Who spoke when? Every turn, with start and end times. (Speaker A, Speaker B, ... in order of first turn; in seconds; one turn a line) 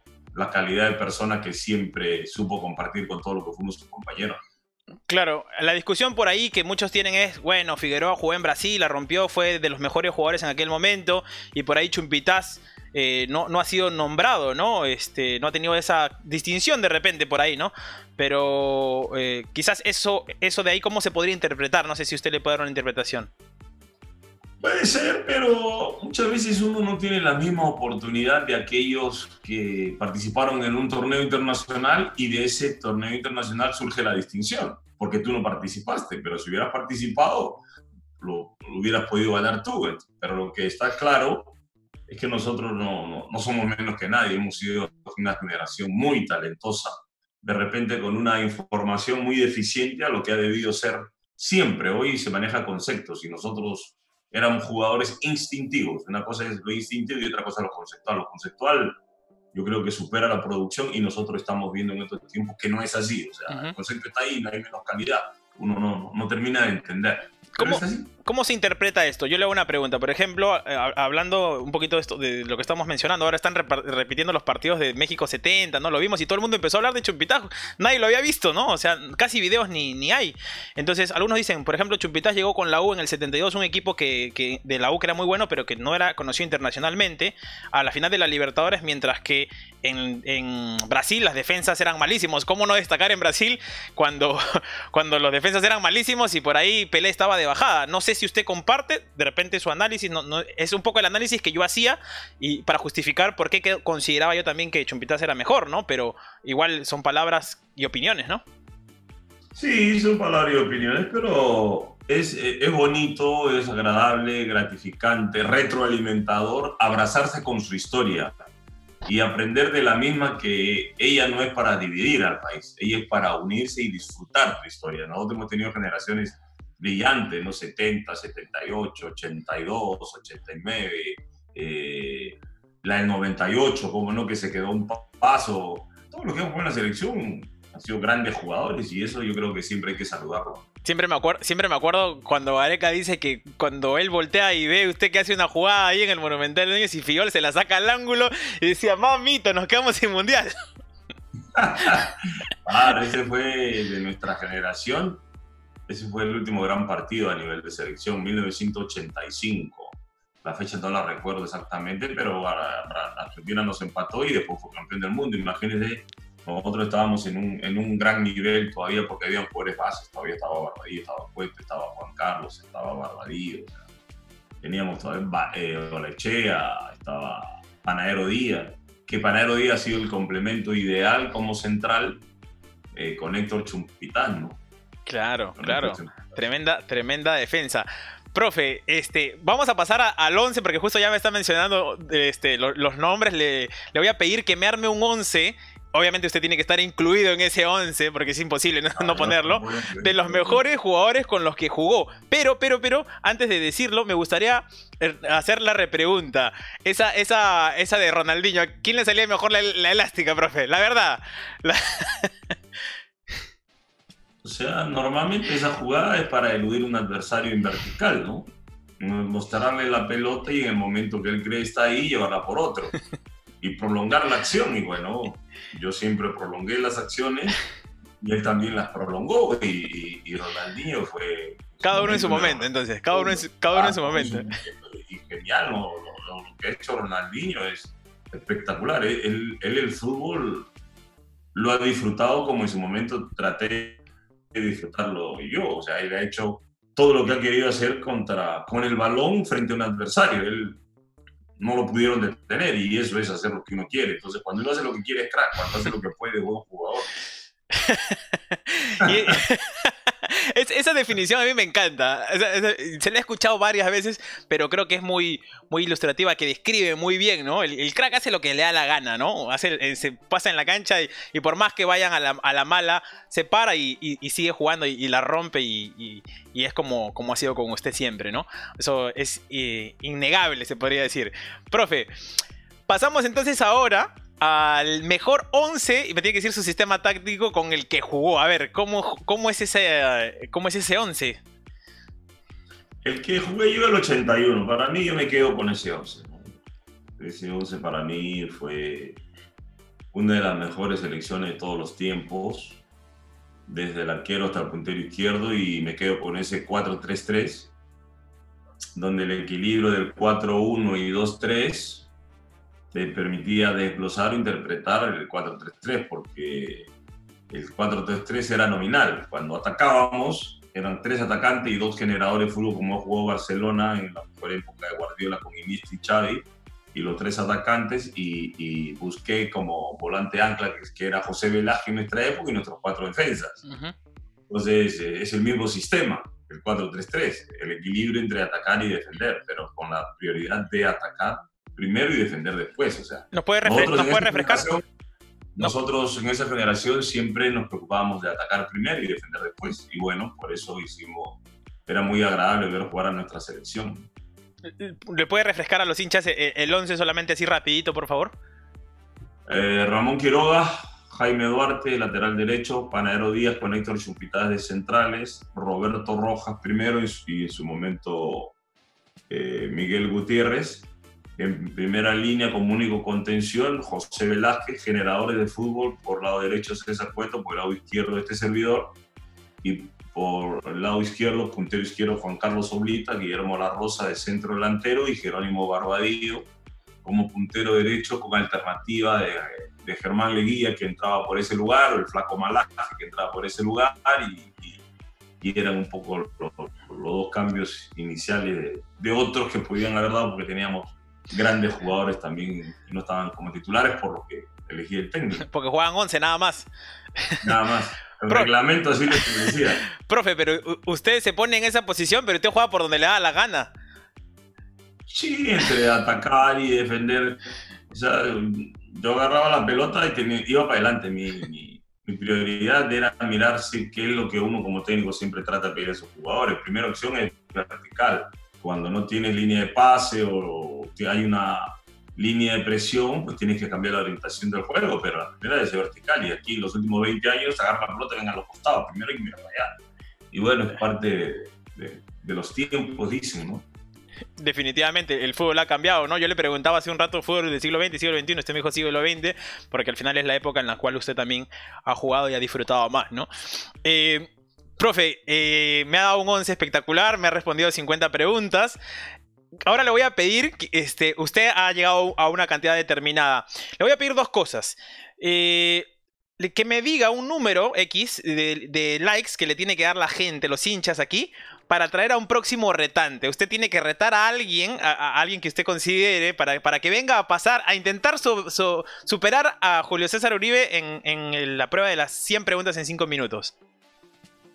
Speaker A: 0.3-4.4
Speaker B: 5.1-23.3
Speaker A: 24.6-37.6
Speaker A: 38.2-41.5
Speaker A: 42.1-59.0
Speaker A: 59.5-68.1
Speaker B: 63.5-63.7
Speaker B: 67.5-108.4
Speaker A: 109.5-118.3
Speaker A: 119.0-140.6
Speaker B: 140.8-150.5
Speaker A: 151.5-155.2
Speaker A: 155.9-173.8
Speaker A: 174.6-182.2
Speaker A: 182.9-184.6
Speaker B: 185.1-212.3
Speaker A: 185.6-186.4
Speaker A: 198.9-200.7
Speaker A: 214.4-218.5
Speaker A: 219.0-222.9
Speaker A: 223.6-227.6
Speaker A: 228.2-240.7
Speaker B: 231.8-234.5
Speaker A: 241.5-250.8
Speaker A: 251.6-257.2
Speaker B: 257.7-282.1
Speaker A: 259.0-259.4
Speaker B: 282.9-291.4
Speaker A: 293.0-296.6
Speaker A: 297.2-299.2
Speaker A: 300.1-302.8
Speaker A: 303.7-307.7
Speaker A: 308.9-312.1
Speaker A: 312.9-316.9
Speaker A: 317.5-333.6
Speaker B: 333.6-333.9
Speaker A: 334.5-344.8
Speaker B: 343.3-344.7
Speaker A: 345.5-354.1
Speaker B: 354.7-358.4
Speaker A: 359.5-368.5
Speaker A: 369.3-379.0
Speaker A: 379.6-386.5
Speaker A: 387.0-394.8
Speaker A: 395.4-405.4
Speaker B: 405.4-406.7
Speaker A: 407.4-409.8
Speaker B: 409.1-413.7
Speaker A: 415.1-439.8
Speaker A: 440.3-443.6
Speaker B: 444.4-458.8
Speaker B: 459.6-483.6